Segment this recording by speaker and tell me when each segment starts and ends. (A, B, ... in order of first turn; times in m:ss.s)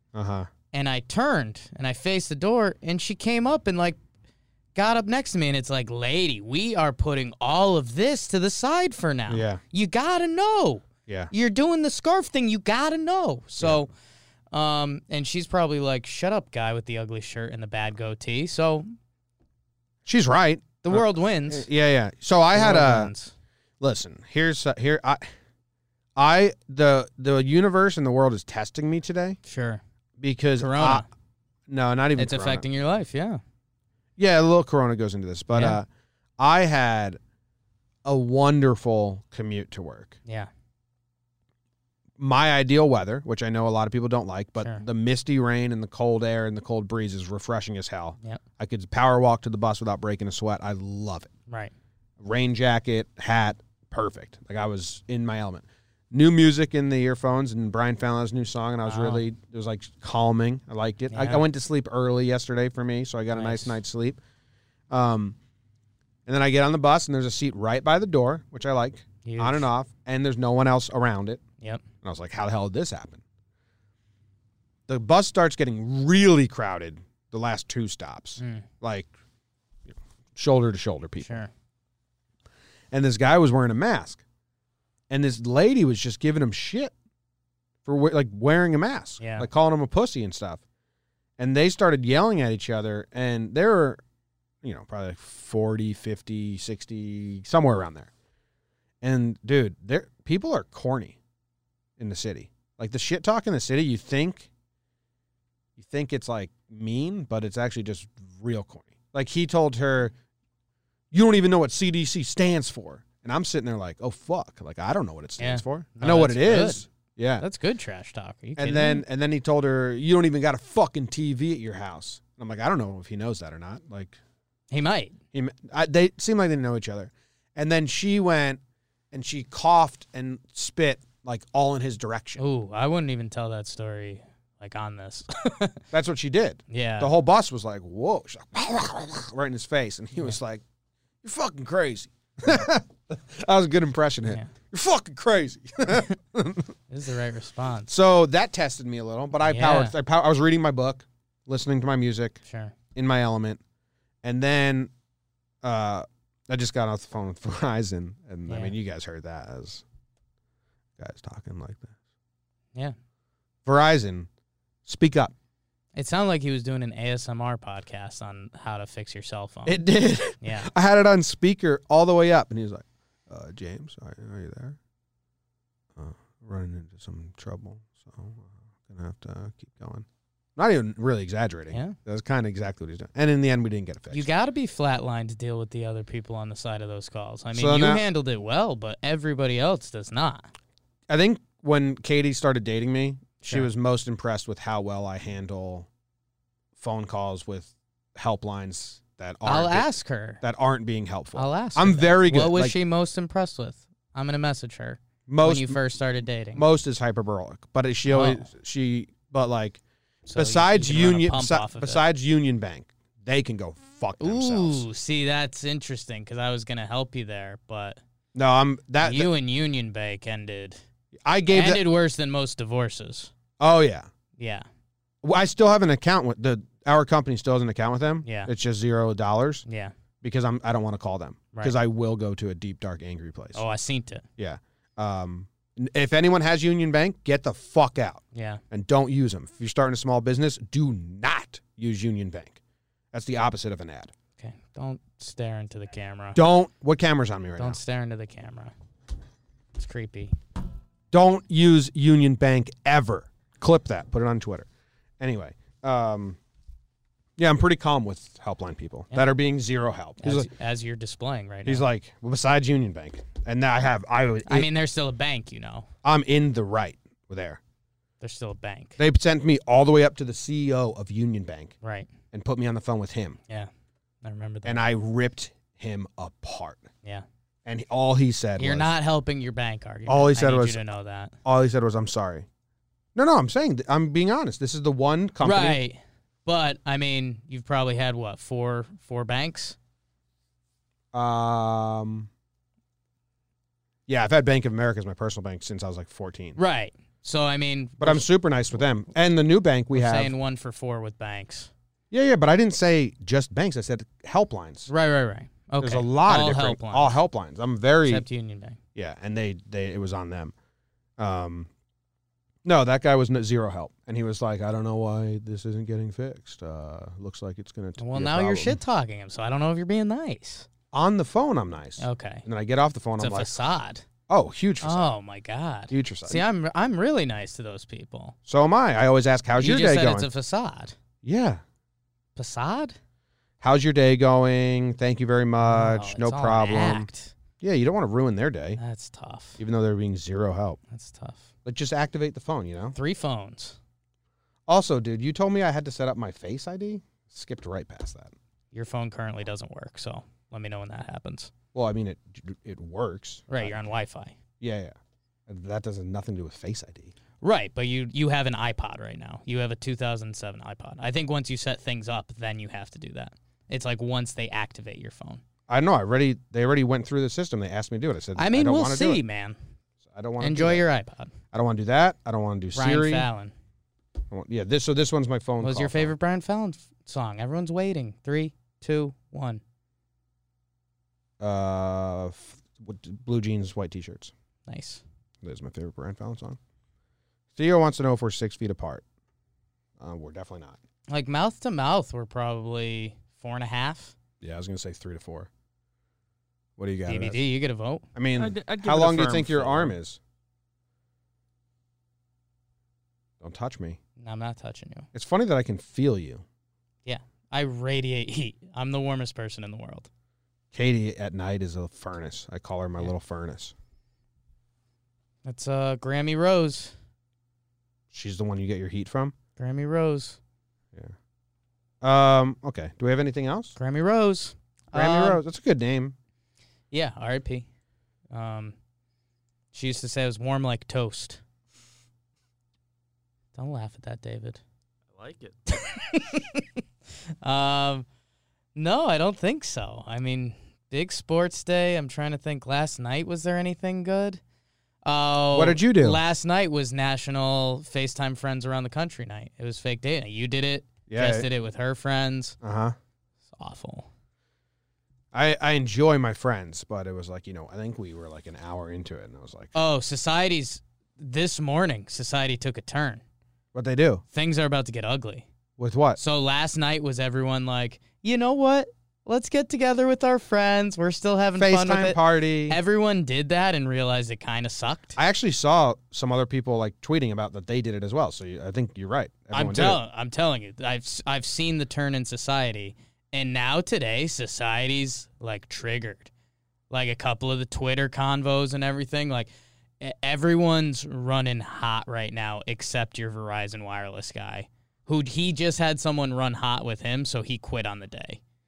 0:00.1-0:00.5 A
0:00.7-0:04.0 B
0:04.7-0:13.9 B
0:09.3-0:09.6 A
0:11.1-0:11.3 A
0:14.5-0:18.9 B
0:20.0-0:23.1 A
0:20.8-0:21.6 B
0:22.5-0:23.3 B
0:23.8-0:25.2 A
0:26.2-0:29.4 A
0:29.4-0:29.8 B
0:30.2-0:31.0 A
0:30.6-0:31.0 B
0:31.7-0:32.6 A
0:32.2-0:33.4 B
0:34.2-0:35.9 A
0:35.5-0:35.8 B
0:36.4-0:37.2 A
0:38.0-0:40.2 A
0:42.2-0:51.3 A
0:51.5-0:51.7 B
0:52.2-1:04.2 A
0:58.8-0:59.2 B
1:01.1-1:01.4 B
1:03.3-1:03.7 B
1:04.9-1:05.4 A
1:06.2-1:11.4 A
1:09.2-1:09.7 B
1:12.0-1:13.2 A
1:14.9-1:19.1 A
1:18.4-1:18.7 B
1:19.9-1:21.4 A
1:21.2-1:21.5 B
1:22.9-1:24.2 A
1:25.1-1:26.9 A
1:27.8-1:30.6 A
1:29.2-1:29.5 B
1:31.4-1:34.0 A
1:34.6-1:38.1 A
1:39.0-1:41.2 A
1:42.0-1:44.5 A
1:45.8-1:50.1 A
1:51.1-1:57.4 A
1:55.4-1:56.8 B
1:57.4-1:59.0 B
1:58.6-2:04.2 A
2:04.7-2:05.2 B
2:05.3-2:08.6 A
2:09.1-2:12.4 A
2:12.4-2:15.8 B
2:15.9-2:20.6 A
2:16.7-2:17.1 B
2:21.2-2:26.7 A
2:26.9-2:27.9 B
2:27.9-2:32.4 A
2:29.4-2:29.9 B
2:32.4-2:32.7 B
2:32.9-2:33.6 A
2:34.2-2:34.9 A
2:35.6-2:39.8 A
2:38.5-2:38.7 B
2:41.0-2:41.9 A
2:43.6-2:44.3 A
2:44.8-2:45.3 A
2:45.9-2:49.8 B
2:49.6-2:54.8 A
2:50.4-2:50.7 B
2:56.0-3:04.3 A
3:04.1-3:10.5 B
3:07.5-3:08.0 A
3:11.1-3:15.9 A
3:13.4-3:13.7 B
3:16.8-3:19.9 A
3:19.4-3:20.4 B
3:20.4-3:22.8 A
3:21.3-3:26.6 B
3:25.3-3:25.8 A
3:26.5-3:29.8 A
3:28.1-3:28.5 B
3:30.3-3:32.0 B
3:30.3-3:34.8 A
3:34.2-3:38.0 B
3:38.3-3:39.3 A
3:39.0-3:40.8 B
3:41.2-3:41.8 A
3:41.5-3:43.3 B
3:43.6-3:44.1 A
3:44.4-3:44.6 B
3:45.2-3:49.6 A
3:48.2-3:48.5 B
3:49.6-3:49.9 B
3:50.2-3:53.6 A
3:53.5-3:54.2 B
3:54.4-4:02.6 A
3:58.3-3:58.6 B
4:03.1-4:04.1 A
4:04.4-4:06.4 B
4:06.3-4:07.8 A
4:07.6-4:08.7 B
4:09.7-4:10.3 B
4:11.1-4:14.6 A
4:15.2-4:16.4 A
4:17.4-4:20.5 A
4:20.2-4:21.8 B
4:21.6-4:24.7 A
4:24.4-4:25.9 B
4:26.0-4:27.6 A
4:28.2-4:29.0 B
4:29.0-4:31.7 A
4:31.8-4:32.1 B
4:32.3-4:33.4 A
4:34.2-4:34.8 B
4:34.6-4:36.8 A
4:37.6-4:38.9 A
4:38.6-4:41.3 B
4:40.1-4:40.8 A
4:41.4-4:42.4 A
4:43.1-4:45.8 A
4:45.4-4:49.8 B
4:51.1-4:52.3 A
4:54.1-4:56.6 A
4:56.6-4:58.3 B
4:58.0-5:00.3 A
4:59.9-5:01.7 B
5:02.1-5:04.9 A
5:04.9-5:07.2 B
5:05.8-5:08.2 A
5:08.0-5:08.8 B
5:08.9-5:10.5 A
5:11.2-5:11.7 A
5:12.6-5:18.8 A
5:18.0-5:20.7 B
5:20.9-5:23.5 A
5:22.0-5:22.4 B
5:23.2-5:24.0 B
5:24.3-5:25.1 A
5:24.8-5:28.4 B
5:25.9-5:26.4 A
5:28.4-5:30.3 A
5:29.6-5:31.0 B
5:31.2-5:31.6 A
5:32.4-5:33.0 B
5:33.6-5:37.1 A
5:35.6-5:37.3 B
5:37.6-5:38.8 A
5:38.8-5:39.6 B
5:39.6-5:40.8 A
5:40.9-5:41.5 B
5:41.6-5:43.0 A
5:42.9-5:43.8 B
5:44.7-5:48.3 A
5:48.7-5:51.5 B
5:51.7-5:53.9 A
5:53.5-5:54.4 B
5:54.6-5:55.0 A
5:55.5-5:57.1 A
5:57.4-6:05.4 B
6:05.7-6:09.2 A
6:08.4-6:09.6 B
6:10.1-6:10.8 A
6:10.4-6:11.3 B
6:11.5-6:13.3 A
6:12.7-6:13.5 B
6:14.3-6:16.1 A
6:15.6-6:19.6 B
6:21.4-6:24.3 A
6:24.7-6:25.0 B
6:25.4-6:26.6 A
6:27.5-6:29.0 A
6:30.0-6:30.8 A
6:31.1-6:34.1 B
6:34.4-6:35.5 A
6:36.8-6:37.4 A
6:37.1-6:38.1 B
6:38.1-6:40.2 A
6:38.3-6:39.9 C
6:43.4-6:44.0 A
6:44.2-6:45.1 B
6:45.1-6:46.4 A
6:47.0-6:50.1 B
6:50.7-6:53.7 A
6:55.4-6:56.9 B
6:58.1-6:59.3 A
6:59.6-7:00.4 B
7:02.0-7:03.7 A
7:03.8-7:05.4 B
7:04.9-7:06.1 A
7:06.9-7:07.7 B
7:08.3-7:08.7 B
7:09.7-7:11.4 B
7:13.5-7:14.6 B
7:15.1-7:15.6 C
7:15.7-7:16.6 B
7:17.4-7:18.0 B
7:18.7-7:24.4 B
7:25.0-7:32.6 B
7:25.5-7:26.2 A
7:31.1-7:31.5 A
7:32.6-7:33.0 A
7:33.5-7:34.1 B
7:35.3-7:39.7 A
7:39.7-7:43.2 B
7:43.7-7:44.2 A
7:44.3-7:45.5 B
7:45.8-7:46.2 A
7:46.2-7:55.2 B
7:51.6-7:52.8 A
7:55.2-8:00.0 A
7:59.5-8:06.3 B
8:06.9-8:18.4 B